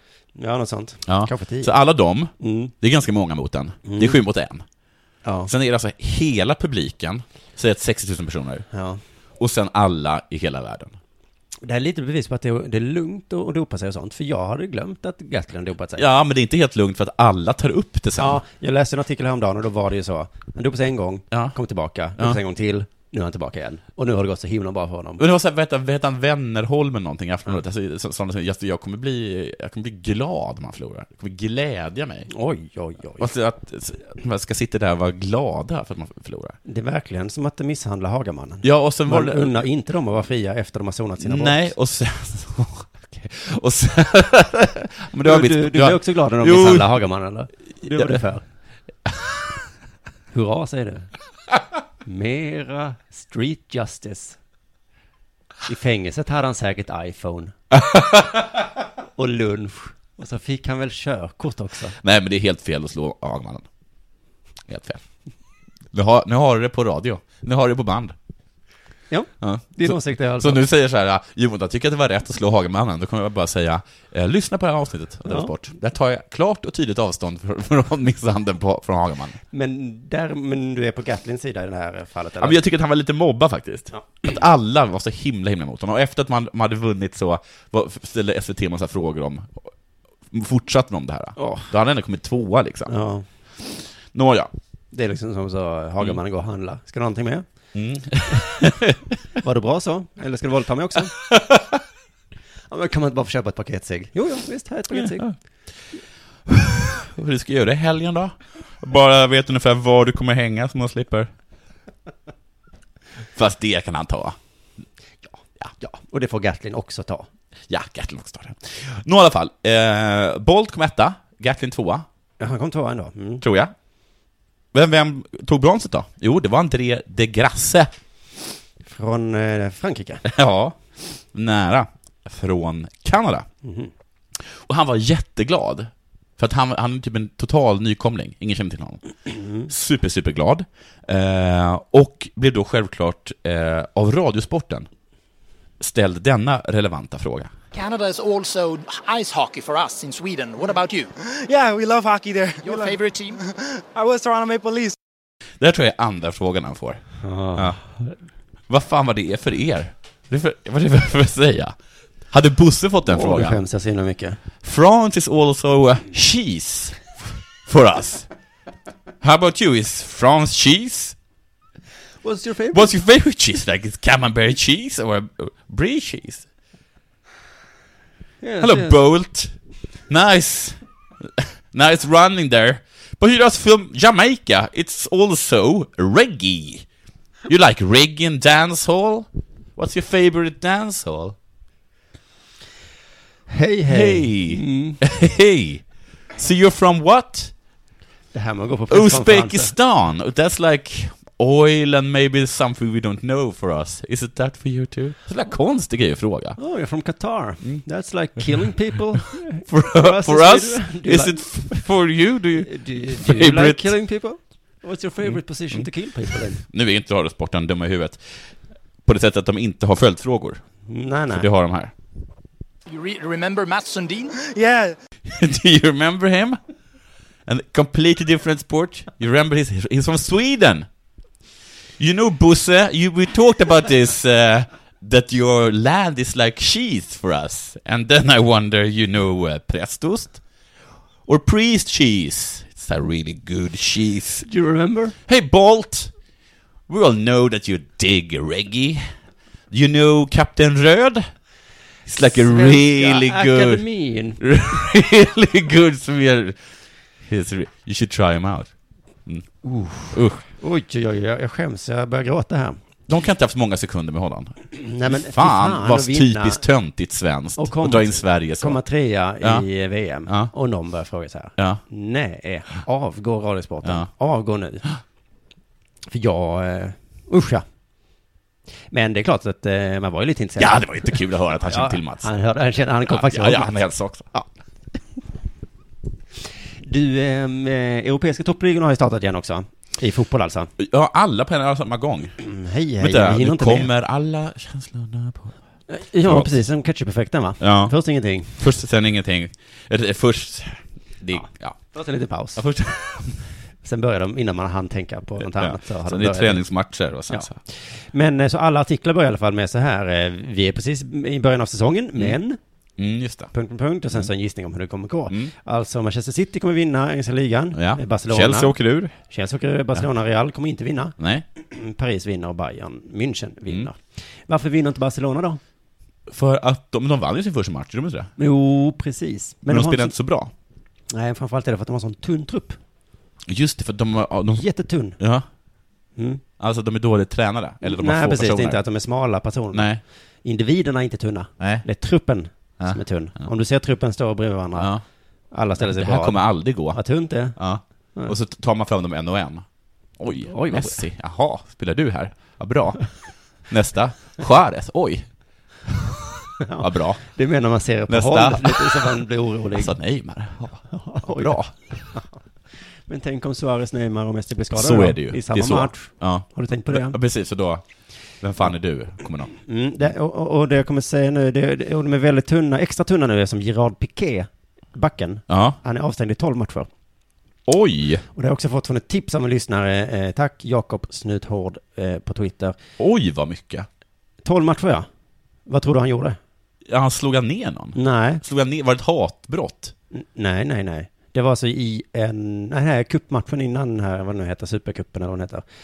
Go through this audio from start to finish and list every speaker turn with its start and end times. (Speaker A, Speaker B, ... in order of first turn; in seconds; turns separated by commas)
Speaker A: 0.3-1.7, Speaker B: 1.1-4.6, Speaker A: 2.4-2.7, Speaker A: 3.8-4.2, Speaker A: 5.2-5.5, Speaker B: 5.5-8.7, Speaker A: 8.7-9.0, Speaker B: 9.4-10.9, Speaker A: 11.6-16.0, Speaker B: 15.9-18.4, Speaker A: 18.2-25.2, Speaker B: 21.3-21.6, Speaker B: 25.2-32.3, Speaker A: 32.3-33.3, Speaker B: 33.2-36.6, Speaker A: 36.6-41.7, Speaker B: 38.6-39.6, Speaker B: 41.2-47.0, Speaker A: 45.2-48.4, Speaker B: 47.9-48.2, Speaker A: 50.3-51.1, Speaker A: 52.0-54.4, Speaker A: 55.6-57.5, Speaker B: 57.7-58.3, Speaker A: 59.1-61.9, Speaker B: 62.0-63.6, Speaker B: 64.7-65.0, Speaker B: 65.9-68.1, Speaker A: 69.1-70.6, Speaker B: 69.4-79.4, Speaker A: 75.2-75.5, Speaker A: 79.5-82.6, Speaker B: 82.4-89.7, Speaker B: 90.3-92.9, Speaker A: 91.4-91.7, Speaker A: 92.9-93.2, Speaker B: 94.1-94.5, Speaker A: 94.9-97.5, Speaker B: 97.7-99.0, Speaker A: 99.4-101.3, Speaker A: 102.7-105.3, Speaker B: 104.9-105.3, Speaker B: 106.5-111.3, Speaker B: 113.3-114.3, Speaker A: 115.8-117.3, Speaker B: 117.7-122.0, Speaker A: 122.4-123.4, Speaker B: 123.4-123.7, Speaker B: 124.7-127.9, Speaker A: 128.8-130.2, Speaker B: 130.2-133.5, Speaker A: 133.6-133.9, Speaker B: 134.5-139.1, Speaker B: 139.6-144.9, Speaker B: 145.8-147.5, Speaker C: 147.7-151.1, Speaker D: 151.2-154.9, Speaker C: 152.6-153.4, Speaker B: 155.6-157.8, Speaker A: 157.2-157.8, Speaker B: 158.7-161.7, Speaker B: 162.3-163.6, Speaker A: 163.1-164.4, Speaker B: 164.6-168.3, Speaker B: 169.2-171.2, Speaker A: 172.2-172.9, Speaker B: 172.7-176.4, Speaker A: 178.4-179.0, Speaker B: 178.6-179.5, Speaker B: 180.1-180.8, Speaker B: 181.4-186.8, Speaker B: 187.5-191.3, Speaker A: 193.5-195.0, Speaker B: 193.9-195.8, Speaker B: 196.3-197.5, Speaker A: 198.3-199.7, Speaker B: 198.9-206.6, Speaker A: 206.6-211.9, Speaker B: 209.2-213.9, Speaker A: 212.6-216.6, Speaker B: 215.2-215.9, Speaker B: 216.6-218.4, Speaker B: 219.0-220.6, Speaker A: 220.9-221.5, Speaker B: 221.3-221.9, Speaker C: 222.9-224.3, Speaker D: 224.3-224.9, Speaker B: 225.3-226.6, Speaker B: 227.5-230.9, Speaker B: 232.0-240.4, Speaker B: 241.2-244.5, Speaker A: 244.4-245.2, Speaker B: 245.3-246.1, Speaker B: 246.9-249.1, Speaker B: 249.7-251.3, Speaker B: 252.1-253.8, Speaker A: 252.2-254.6, Speaker B: 254.4-256.6, Speaker B: 257.3-258.7, Speaker A: 259.6-262.8, Speaker B: 260.1-260.4, Speaker B: 263.1-268.8, Speaker A: 264.7-266.6, Speaker A: 267.6-274.8, Speaker B: 269.4-269.7, Speaker B: 270.2-270.5, Speaker B: 271.6-271.8, Speaker B: 273.8-274.1, Speaker A: 276.1-277.6, Speaker A: 278.9-283.8, Speaker B: 280.6-282.3, Speaker B: 283.0-284.3, Speaker A: 286.8-290.7, Speaker B: 290.8-292.4, Speaker A: 292.4-293.9, Speaker B: 293.0-295.6, Speaker A: 295.9-298.5, Speaker B: 296.2-296.5, Speaker B: 297.6-301.9, Speaker A: 301.3-302.6, Speaker B: 302.5-303.4, Speaker A: 303.8-306.6, Speaker B: 305.4-307.6, Speaker A: 307.3-312.6, Speaker B: 313.0-313.5, Speaker A: 313.5-325.6, Speaker B: 315.3-315.5, Speaker B: 317.7-319.2, Speaker B: 321.2-321.4, Speaker B: 326.3-328.3, Speaker A: 328.4-330.1, Speaker B: 329.6-330.5, Speaker A: 331.1-332.8, Speaker B: 333.5-335.4, Speaker A: 334.6-335.2, Speaker A: 336.1-336.4, Speaker B: 336.6-338.8, Speaker A: 337.8-344.9, Speaker B: 339.7-340.0, Speaker B: 341.6-341.9, Speaker B: 342.8-343.5, Speaker B: 344.8-345.0, Speaker A: 345.5-347.6, Speaker B: 345.8-349.6, Speaker B: 350.2-355.3, Speaker A: 350.4-351.0, Speaker A: 356.6-359.9, Speaker B: 356.8-357.2, Speaker B: 358.1-362.1, Speaker A: 360.9-361.6, Speaker A: 363.1-367.2, Speaker B: 364.7-367.8, Speaker B: 368.4-369.5, Speaker A: 369.7-376.9, Speaker B: 375.5-375.8, Speaker B: 377.7-378.2, Speaker A: 378.3-382.8, Speaker B: 383.0-383.9, Speaker A: 384.4-385.1, Speaker A: 385.6-386.4, Speaker B: 386.9-389.9, Speaker A: 387.9-388.4, Speaker A: 390.1-395.6